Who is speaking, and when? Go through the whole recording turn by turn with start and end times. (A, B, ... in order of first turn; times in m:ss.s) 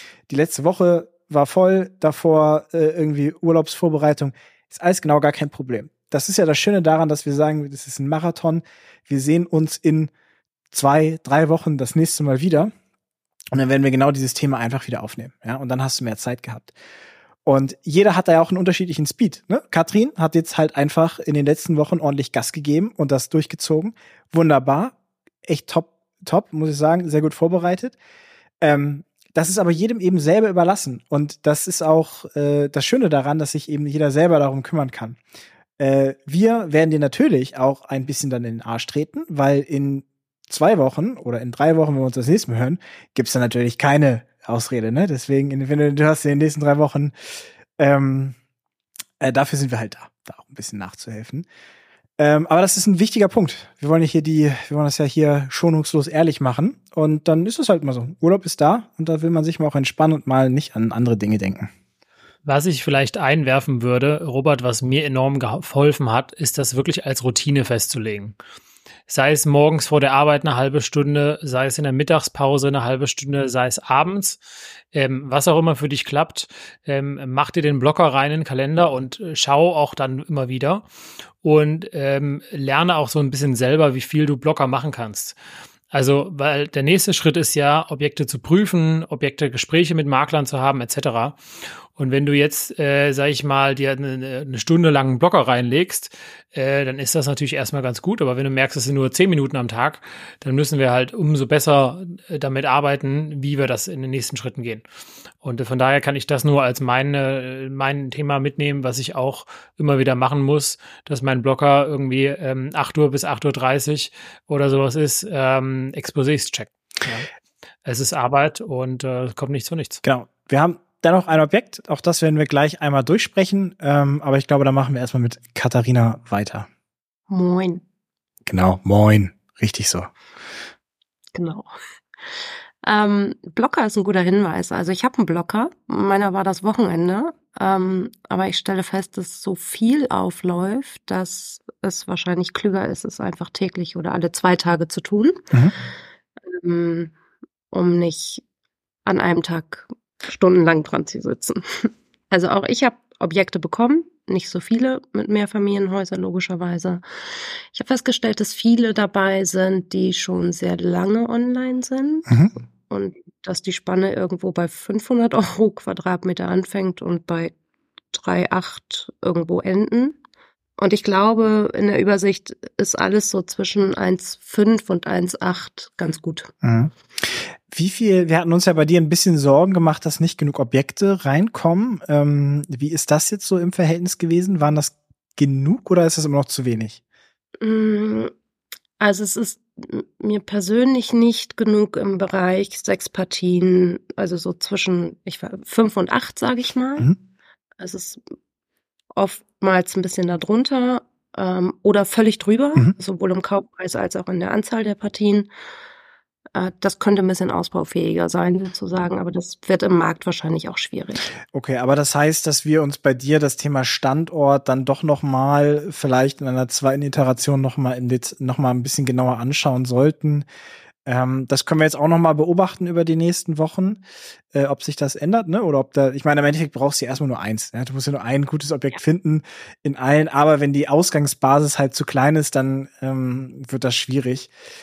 0:00.3-0:10.1 A
0:10.7-0:12.7 A
0:13.5-0:16.8 A
0:17.5-0:28.0 A
0:28.6-0:35.2 A
0:35.8-0:47.1 A
0:47.8-0:48.4 A
0:49.2-0:51.5 A
0:52.2-1:01.7 A
1:02.4-1:08.4 B
1:09.1-1:14.4 B
1:14.9-1:20.9 B
1:21.4-1:25.4 B
1:25.9-1:31.4 B
1:32.0-1:44.8 B
1:45.4-1:57.3 B
1:57.8-2:00.0 B
2:00.0-2:06.7 A
2:07.3-2:07.8 C
2:08.5-2:10.1 A
2:11.4-2:11.7 C
2:12.8-2:25.4 C
2:26.4-2:27.1 C
2:27.7-2:28.4 C
2:29.1-2:47.5 C
2:42.3-2:42.5 A
2:48.1-2:50.2 C
2:50.8-2:56.5 C
2:56.6-3:07.0 A
3:07.6-3:08.3 C
3:09.0-3:17.1 C
3:17.8-3:18.2 C
3:19.1-3:25.5 C
3:26.6-3:31.3 C
3:31.5-3:40.5 A
3:41.1-3:44.0 A
3:44.5-3:54.5 A